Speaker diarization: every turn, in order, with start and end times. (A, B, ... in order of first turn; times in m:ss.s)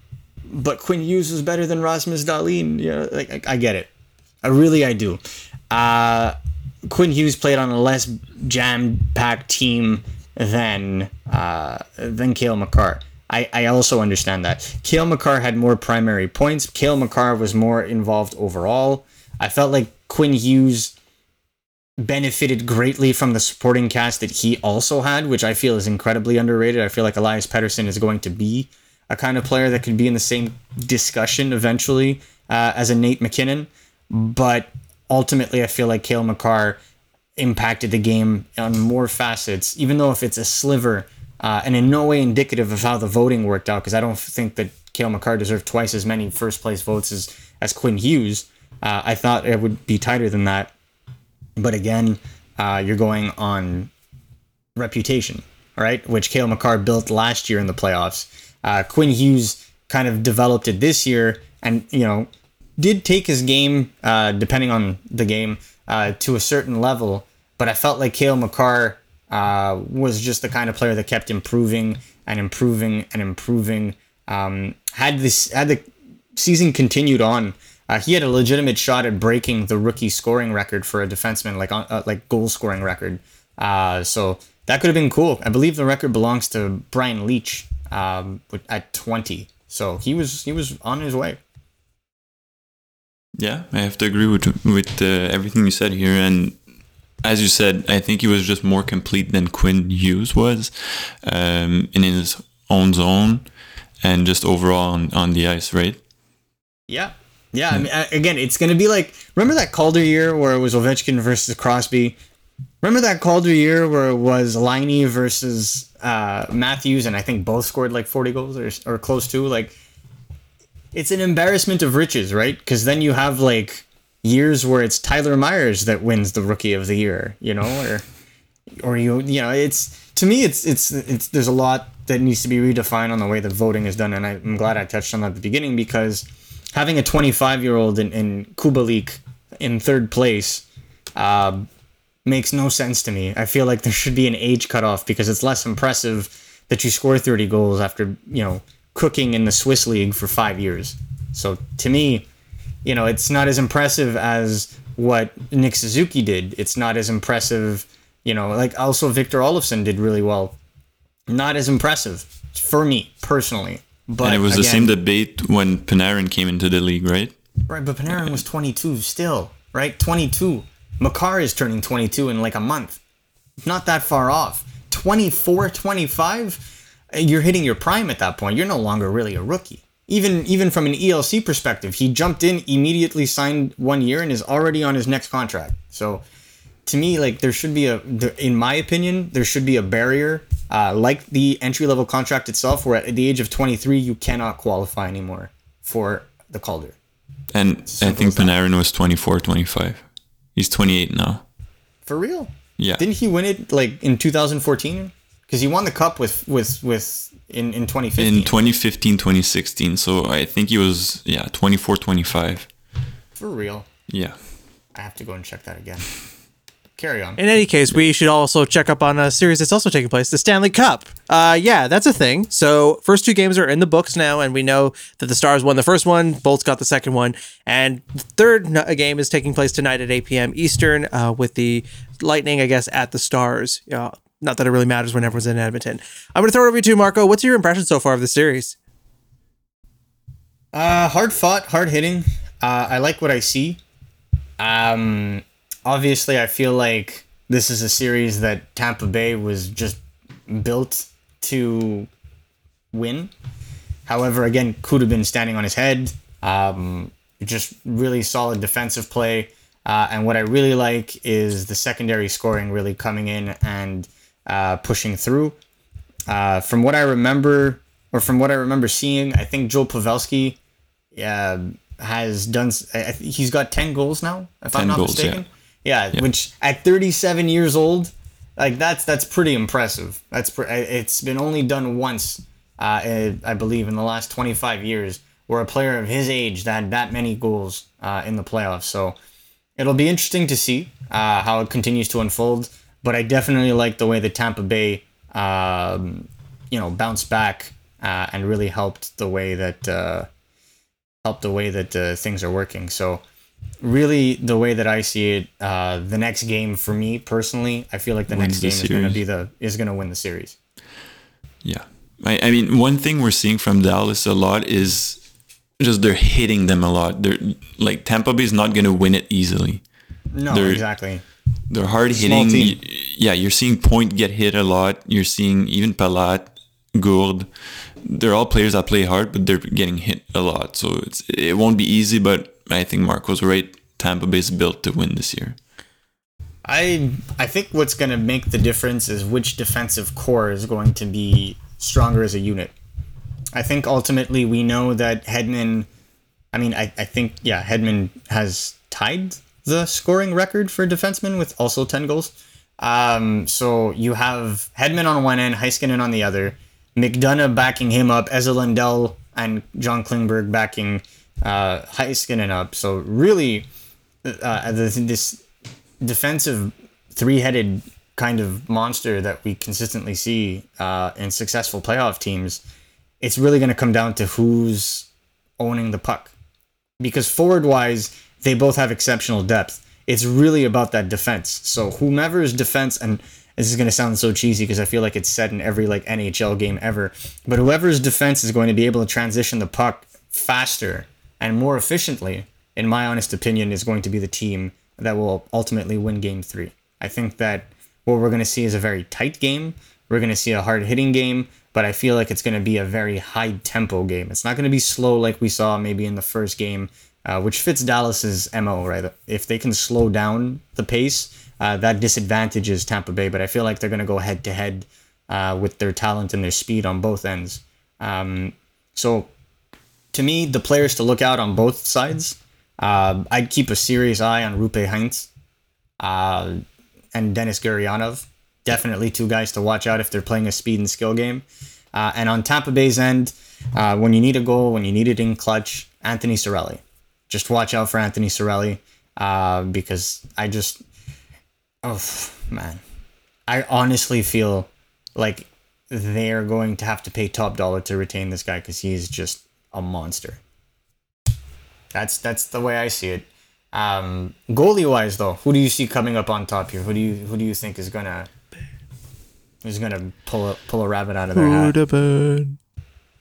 0:00.5-0:03.9 A
0:04.4-0:06.4 A
0:06.9-0:20.9 A
0:22.0-0:36.8 A
0:37.4-0:50.7 A
0:51.6-0:53.9 A
0:54.8-1:31.4 A
1:33.4-1:36.6 B
1:37.2-1:43.5 B
1:44.0-1:46.0 B
1:46.9-1:52.2 A
1:52.8-1:59.8 A
2:00.9-2:08.0 A
2:08.8-2:20.6 A
2:21.2-2:21.6 A
2:22.2-2:32.3 A
2:32.8-2:40.6 A
2:41.3-2:44.9 A
2:44.2-2:47.3 B
2:47.7-2:53.0 A
2:53.6-3:06.2 A
3:06.8-3:17.0 A
3:17.5-3:20.0 B
3:17.9-3:18.5 A
3:20.5-3:21.4 B
3:22.0-3:28.5 A
3:22.8-3:23.0 B
3:28.2-3:32.7 B
3:33.4-3:33.9 A
3:34.1-3:34.4 B
3:34.9-3:36.1 A
3:37.0-3:37.4 A
3:37.4-3:58.8 C
4:00.7-4:03.8 A
4:04.6-4:12.1 A
4:12.9-4:13.3 A
4:14.0-4:25.6 A
4:26.3-4:30.6 A
4:31.1-4:49.2 A
4:34.8-4:35.4 B
4:49.8-5:00.3 A
5:01.2-5:03.2 A
5:03.8-5:10.6 A
5:08.3-5:09.2 B
5:11.6-5:15.2 B
5:15.8-5:19.8 B
5:20.3-5:21.2 A
5:20.5-5:20.8 B
5:21.7-5:27.5 B
5:22.1-5:22.8 A
5:28.0-5:35.6 B
5:36.6-5:42.7 A
5:43.5-5:45.9 A
5:46.5-6:03.7 A
6:04.2-6:05.4 A
6:06.0-6:12.6 A
6:13.2-6:15.1 A
6:15.6-6:16.3 A
6:17.0-6:59.3 A
7:00.1-7:05.3 A
7:06.0-7:06.6 A
7:07.1-7:20.8 A
7:21.8-7:22.8 A
7:23.5-7:30.4 A
7:31.9-7:38.3 A
7:39.6-7:41.8 A
7:41.3-7:42.6 C